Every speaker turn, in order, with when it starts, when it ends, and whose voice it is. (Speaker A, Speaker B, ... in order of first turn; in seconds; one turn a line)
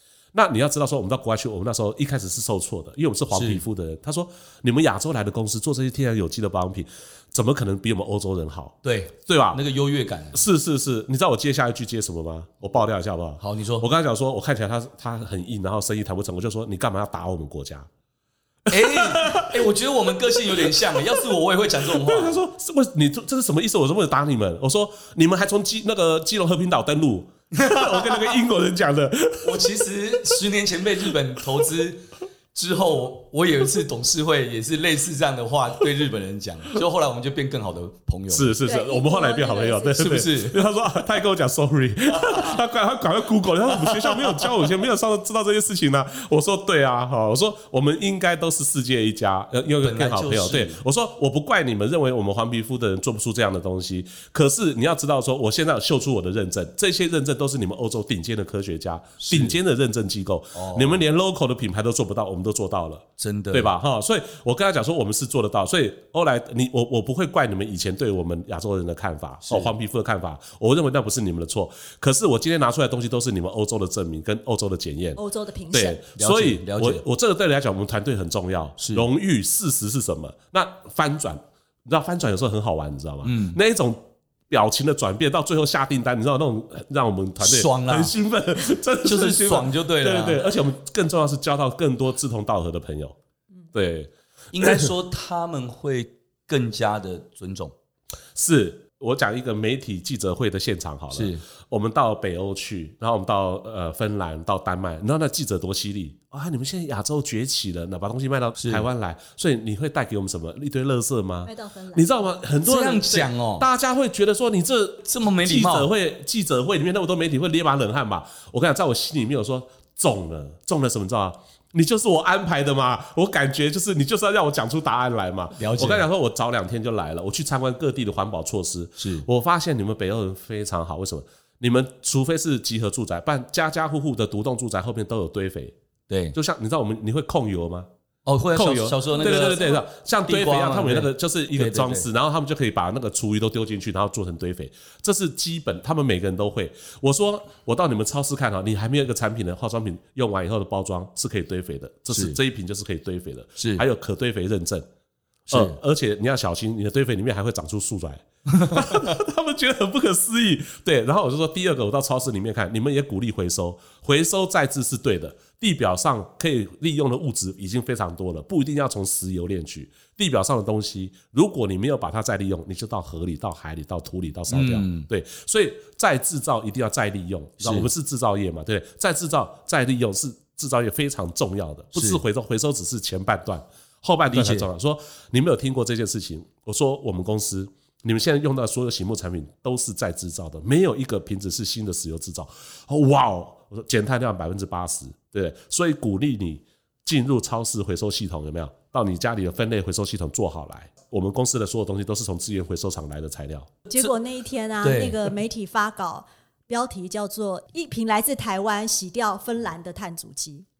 Speaker A: 0.3-9.6
Speaker B: 3.3-3.6
Speaker B: 8.8-10.4
Speaker A: 10.3-17.9
Speaker B: 13.4-13.9
Speaker B: 18.7-22.4
Speaker A: 18.7-19.7
Speaker A: 20.6-21.3
Speaker A: 21.9-29.9
Speaker B: 27.5-28.3
Speaker B: 29.4-38.5
Speaker A: 38.3-75.2
Speaker C: 38.6-40.2
Speaker B: 40.0-40.6
Speaker B: 43.9-44.2
Speaker B: 49.8-50.8
Speaker B: 59.2-59.6
Speaker B: 60.5-61.0
Speaker B: 63.2-63.7
Speaker B: 69.4-69.7
Speaker C: 75.2-76.0
Speaker A: 75.7-93.2
Speaker B: 76.2-77.0
Speaker B: 78.8-79.0
Speaker B: 83.2-83.6
Speaker B: 87.4-88.1
Speaker B: 89.0-90.4
Speaker A: 93.7-94.9
Speaker B: 94.5-97.7
Speaker A: 98.3-135.8
Speaker B: 101.1-101.4
Speaker B: 108.6-108.8
Speaker C: 111.5-112.2
Speaker B: 112.6-113.7
Speaker B: 115.0-115.9
Speaker B: 125.5-126.0
Speaker B: 129.0-129.2
Speaker B: 136.1-136.4
Speaker A: 136.3-137.9
Speaker B: 138.2-142.1
Speaker A: 138.5-154.8
Speaker C: 139.1-139.8
Speaker B: 152.1-152.4
Speaker B: 153.6-153.8
Speaker B: 155.5-155.8
Speaker A: 155.5-203.7
Speaker B: 158.5-158.8
Speaker B: 174.5-175.1
Speaker B: 177.6-177.9
Speaker B: 181.9-182.2
Speaker B: 184.3-184.7
Speaker C: 203.9-210.7
Speaker B: 204.8-205.3